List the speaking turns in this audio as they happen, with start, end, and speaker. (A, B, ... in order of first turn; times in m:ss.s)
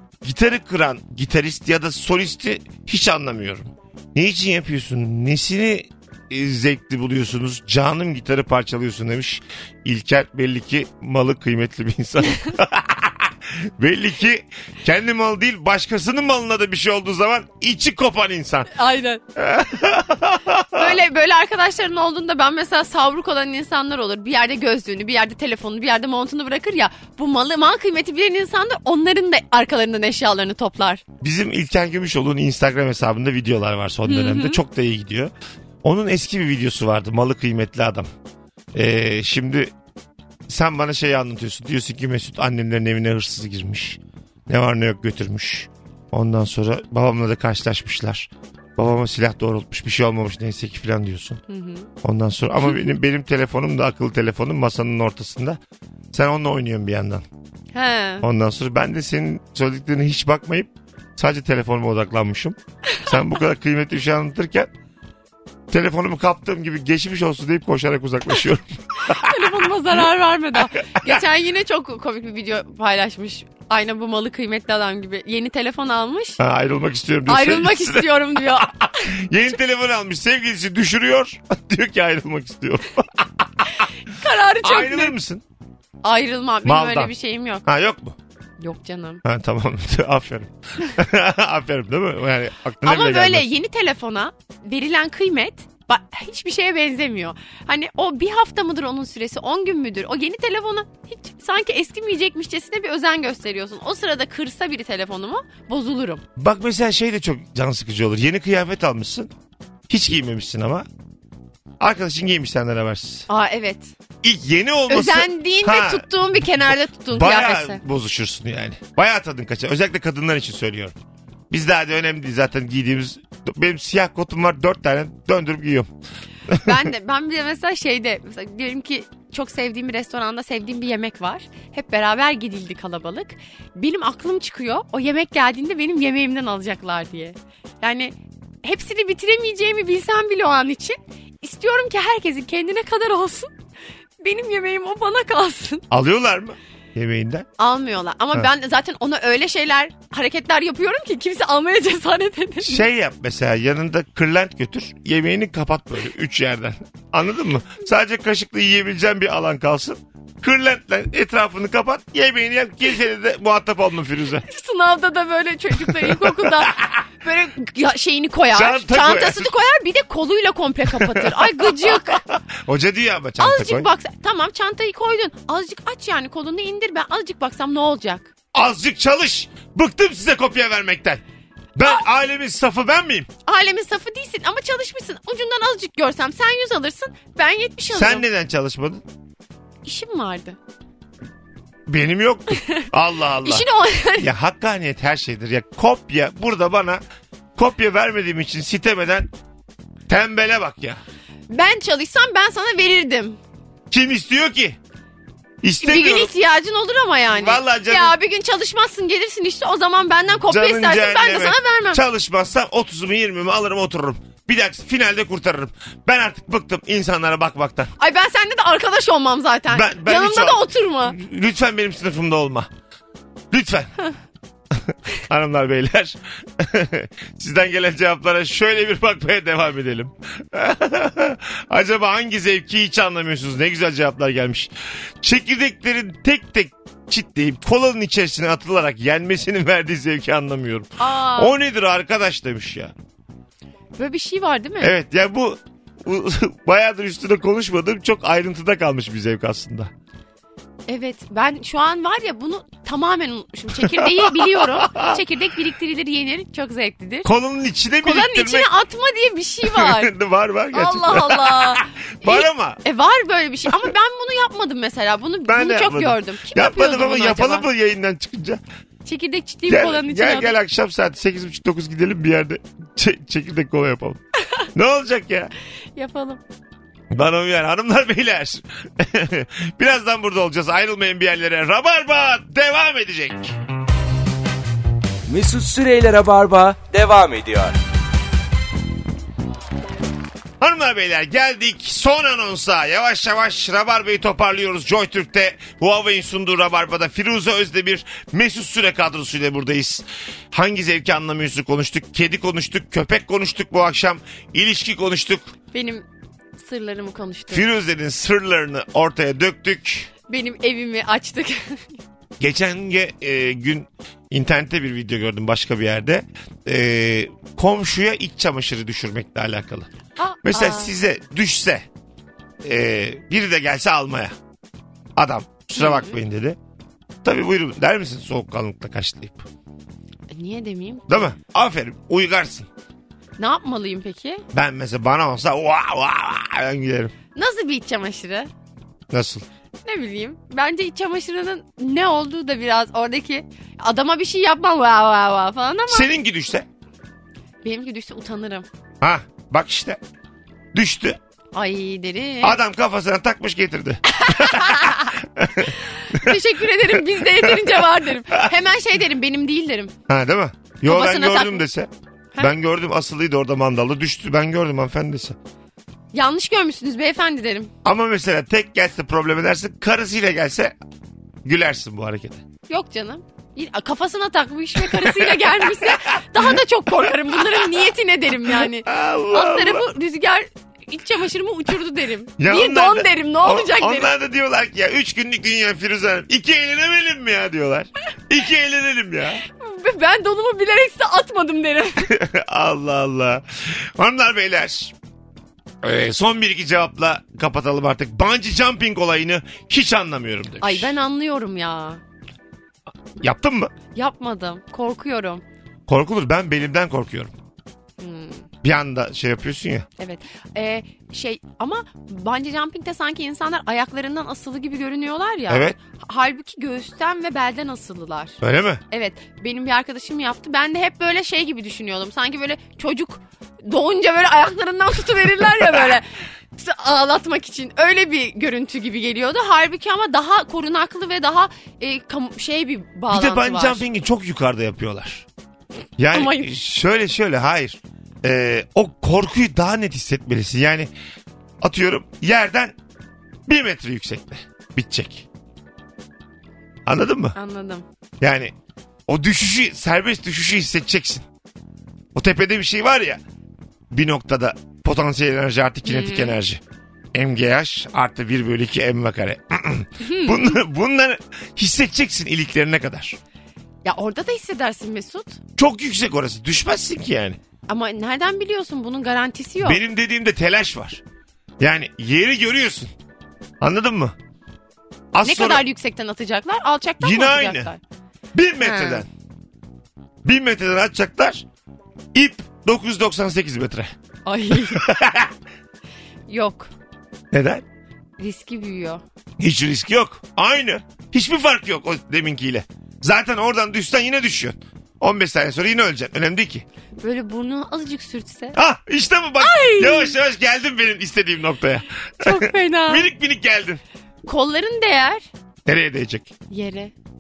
0:00.2-0:18.7 A
0:18.7-0:19.2 B
0:19.4-0:21.0 A
0:20.8-0:31.0 B
0:31.2-0:35.3 A
0:34.0-0:34.6 B
0:35.8-0:38.1 A
0:38.7-0:39.7 A
0:40.5-0:51.4 A
0:51.5-0:51.9 B
0:52.0-0:55.6 A
0:52.6-0:52.9 B
0:56.1-0:57.2 A
0:57.7-0:58.3 B
0:58.2-1:04.7 A
1:05.7-1:09.7 A
1:09.0-1:16.4 B
1:16.4-1:23.9 A
1:17.3-1:19.2 B
1:23.7-1:25.2 B
1:24.6-1:25.4 A
1:26.0-1:27.7 B
1:26.6-1:27.1 A
1:27.6-1:28.2 A
1:28.6-1:29.2 B
1:29.2-1:33.5 A
1:32.8-1:46.2 B
1:46.4-1:49.3 A
1:49.9-1:50.9 A
1:51.8-1:53.3 A
1:53.3-1:53.9 B
1:54.2-2:01.0 A
1:54.9-1:57.8 B
2:01.5-2:05.9 A
2:06.5-2:06.8 A
2:06.6-2:23.5 B
2:24.2-2:25.9 B
2:25.9-2:27.5 A
2:27.6-2:32.8 B
2:32.6-2:44.4 A
2:44.5-2:52.2 B
2:45.9-2:47.0 A
2:48.5-2:49.5 A
2:50.9-2:53.9 A
2:53.4-2:58.3 B
2:58.5-3:01.2 A
3:01.8-3:03.3 A
3:03.5-3:08.2 B
3:07.9-3:09.0 A
3:09.8-3:10.6 B
3:11.9-3:13.7 A
3:12.5-3:12.9 B
3:13.4-3:14.3 B
3:14.2-3:17.0 A
3:17.6-3:19.3 A
3:20.1-3:21.0 A
3:21.5-3:23.4 B
3:23.9-3:24.8 A
3:25.6-3:26.3 A
3:25.8-3:32.0 B
3:27.3-3:28.2 A
3:30.4-3:37.9 A
3:38.0-3:41.2 B
3:39.7-3:42.7 A
3:43.5-3:43.9 A
3:44.9-4:02.9 A
4:01.0-4:01.6 B
4:04.0-4:05.0 B
4:04.8-4:09.9 A
4:10.9-4:17.3 B
4:13.8-4:15.2 A
4:17.2-4:18.7 A
4:18.0-4:20.1 B
4:19.6-4:22.8 A
4:20.7-4:27.7 B
4:25.5-4:28.6 A
4:29.0-4:30.6 B
4:29.7-4:34.2 A
4:34.7-4:35.5 A
4:36.0-4:36.4 B
4:37.1-4:43.5 A
4:45.3-4:47.8 C
4:50.6-5:05.5 A
5:05.7-5:06.1 B
5:06.6-5:07.6 B
5:07.5-5:10.1 A
5:10.3-5:12.0 B
5:12.4-5:19.9 A
5:20.2-5:20.9 B
5:20.4-5:21.9 A
5:22.6-5:24.4 A
5:25.2-5:26.6 A
5:25.8-5:26.2 B
5:27.2-5:29.5 A
5:30.3-5:31.2 B
5:31.1-5:32.7 A
5:33.4-5:34.4 B
5:34.5-5:37.1 A
5:37.3-5:38.5 B
5:39.1-5:39.4 A
5:39.8-5:46.1 B
5:45.9-5:46.7 A
5:47.6-5:48.7 B
5:49.0-5:50.0 A
5:50.7-5:51.2 A
5:51.5-5:52.6 B
5:52.4-5:58.5 A
5:54.1-5:55.1 B
5:55.8-5:59.9 B
6:00.1-6:05.4 A
6:00.8-6:01.6 B
6:06.1-6:07.7 B
6:07.8-6:10.8 A
6:11.4-6:12.4 A
6:12.7-6:24.1 B
6:14.8-6:17.7 A
6:18.5-6:19.9 A
6:22.4-6:29.4 A
6:29.4-6:32.1 B
6:32.0-6:34.9 A
6:35.8-6:40.9 A
6:40.6-6:42.0 B
6:43.2-6:43.7 A
6:44.0-6:45.4 B
6:45.9-6:47.3 A
6:48.0-6:48.5 B
6:48.6-6:49.9 A
6:50.0-6:58.4 B
6:55.5-6:55.8 A
6:58.4-6:58.8 A
6:58.9-7:13.8 B
7:13.1-7:15.3 A
7:16.0-7:20.9 A
7:16.1-7:16.5 B
7:21.6-7:22.8 A
7:23.5-7:25.3 A
7:26.9-7:27.4 A
7:27.4-7:27.8 B
7:28.2-7:28.5 A
7:29.1-7:31.3 A
7:32.2-7:33.2 A
7:33.9-7:36.6 A
7:35.8-7:36.4 B
7:37.1-7:43.2 A
7:40.0-7:40.6 B
7:43.8-7:45.4 B
7:45.6-7:47.4 A
7:47.7-7:49.8 B
7:49.6-7:51.0 A
7:51.6-7:52.9 A
7:53.6-7:54.2 A
7:55.1-7:55.6 A
7:55.2-7:57.8 B
7:57.0-7:57.7 A
7:58.3-7:59.1 A
7:58.6-7:59.0 B
8:00.2-8:01.4 A
8:02.1-8:03.9 A
8:04.3-8:04.8 B
8:04.5-8:05.3 A
8:06.3-8:06.7 B
8:07.3-8:07.6 A
8:08.2-8:09.0 B
8:09.4-8:16.6 A
8:17.0-8:18.6 B
8:18.5-8:23.8 A
8:19.4-8:20.2 B
8:22.2-8:23.1 B
8:24.3-8:25.3 B
8:25.7-8:26.3 A
8:26.5-8:26.9 B